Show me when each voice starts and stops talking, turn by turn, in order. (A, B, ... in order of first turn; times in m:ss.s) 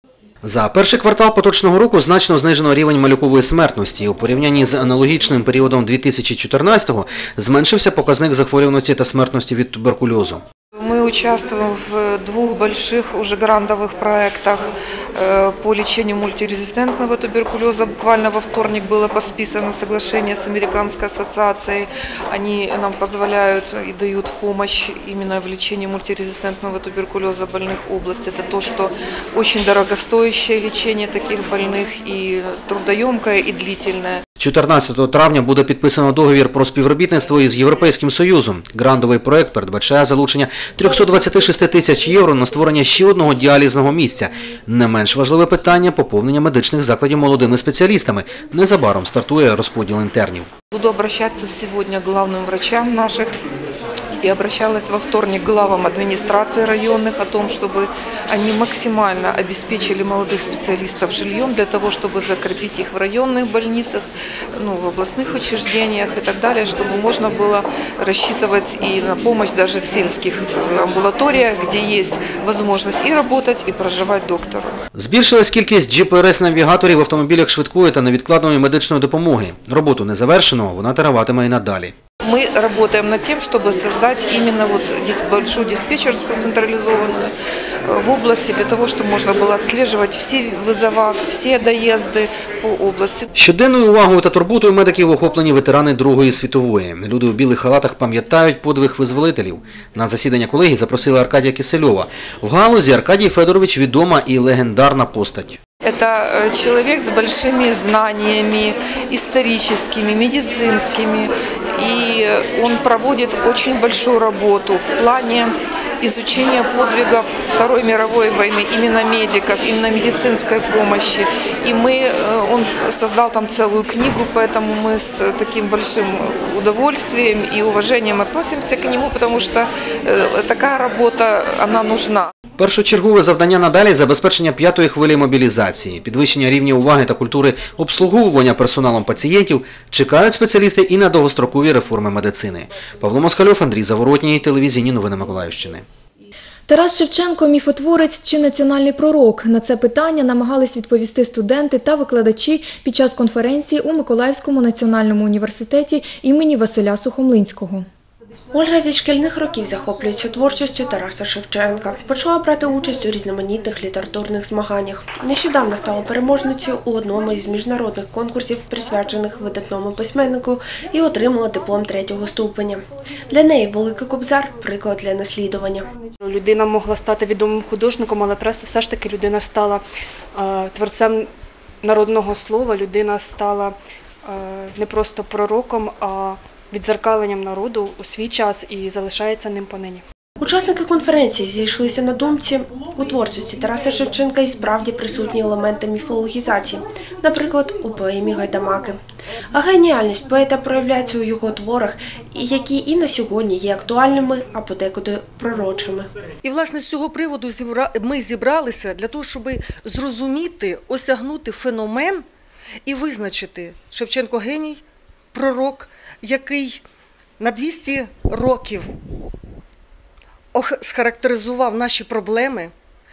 0:00.4-0:10.4 A
0:10.8-0:34.2 B
0:34.4-0:50.5 A
0:50.7-0:53.3 B
0:54.2-1:14.8 B
1:14.9-1:21.9 A
1:22.2-1:27.3 B
1:27.8-1:33.3 B
1:33.4-1:45.6 A
1:45.8-2:12.3 B
2:12.6-2:25.8 A
2:26.7-2:37.8 C
2:38.5-2:55.9 D
2:56.2-2:59.8 E
3:00.3-3:01.3 E
3:01.8-3:10.0 E
3:10.4-3:19.0 D
3:19.5-3:26.1 D
3:26.4-3:32.2 F
3:32.8-3:36.8 F
3:37.4-3:39.0 F
3:40.5-3:42.7 F